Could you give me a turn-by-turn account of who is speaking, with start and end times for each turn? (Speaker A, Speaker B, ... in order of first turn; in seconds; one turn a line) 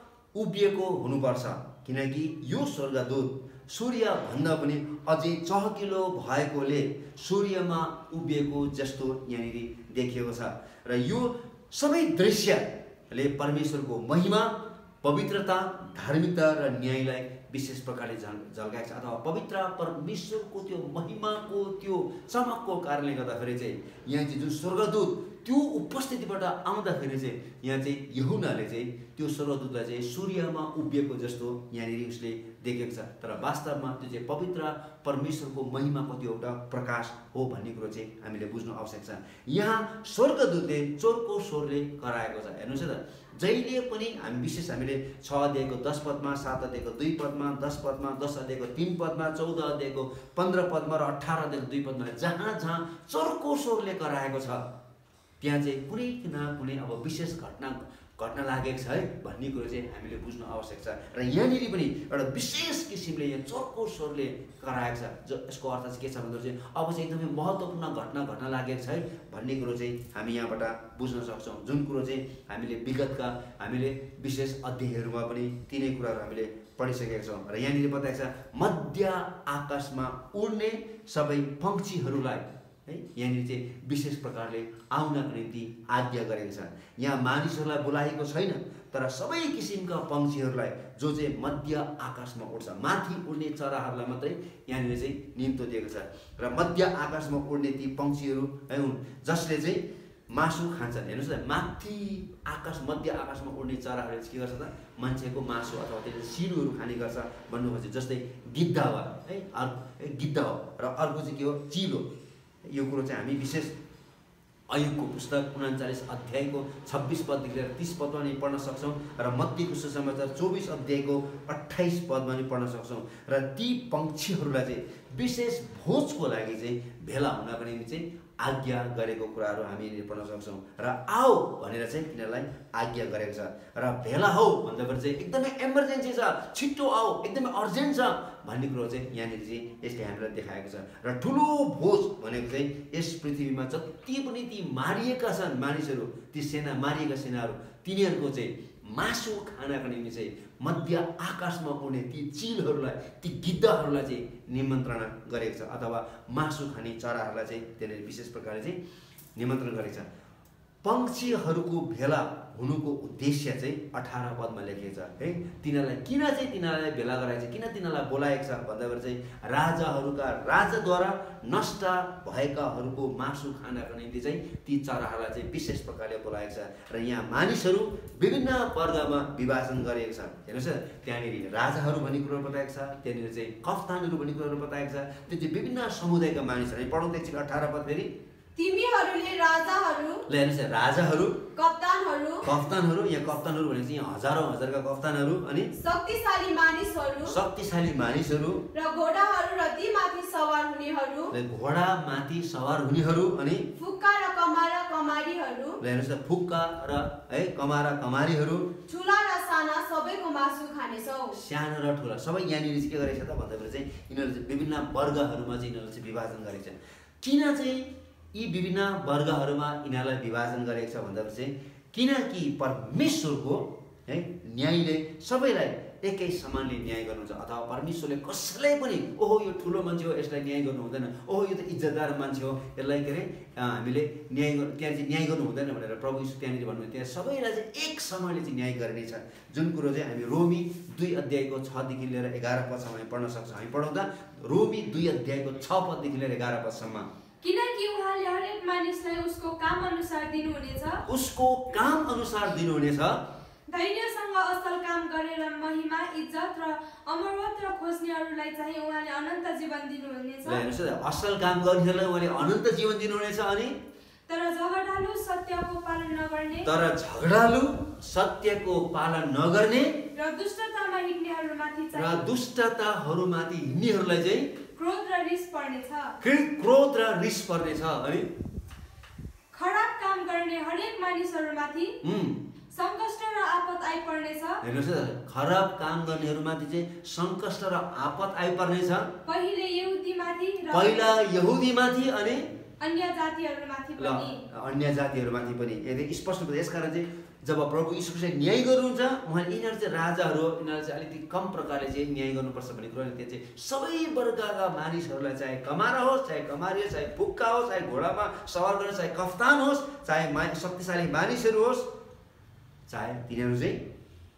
Speaker A: 0.3-54.7
Speaker A: 55.4-112.1
Speaker A: 112.7-113.7
Speaker A: 114.7-158.8
Speaker A: 159.4-160.1
Speaker A: 160.8-188.1
Speaker B: 188.6-190.2
Speaker A: 190.3-191.4
Speaker B: 191.6-192.4
Speaker A: 192.4-195.7
Speaker B: 195.8-197.4
Speaker A: 197.3-198.7
Speaker B: 198.8-201.3
Speaker A: 201.3-203.7
Speaker B: 203.8-205.8
Speaker A: 205.8-208.7
Speaker B: 208.9-211.3
Speaker A: 211.3-247.1
Speaker C: 247.6-250.9
Speaker A: 251.1-253.2
Speaker C: 254.0-256.4
Speaker C: 257.4-260.5
Speaker A: 260.4-263.8
Speaker C: 265.1-265.9
Speaker A: 266.6-270.0
Speaker C: 270.3-272.2
Speaker A: 271.9-274.5
Speaker C: 274.8-276.0
Speaker A: 276.2-278.3
Speaker C: 279.6-281.9
Speaker A: 282.0-282.4
Speaker C: 282.8-284.4
Speaker A: 284.6-289.1
Speaker C: 289.3-291.0
Speaker A: 290.7-292.5
Speaker C: 292.9-294.3
Speaker A: 294.0-311.9
Speaker A: 312.9-313.9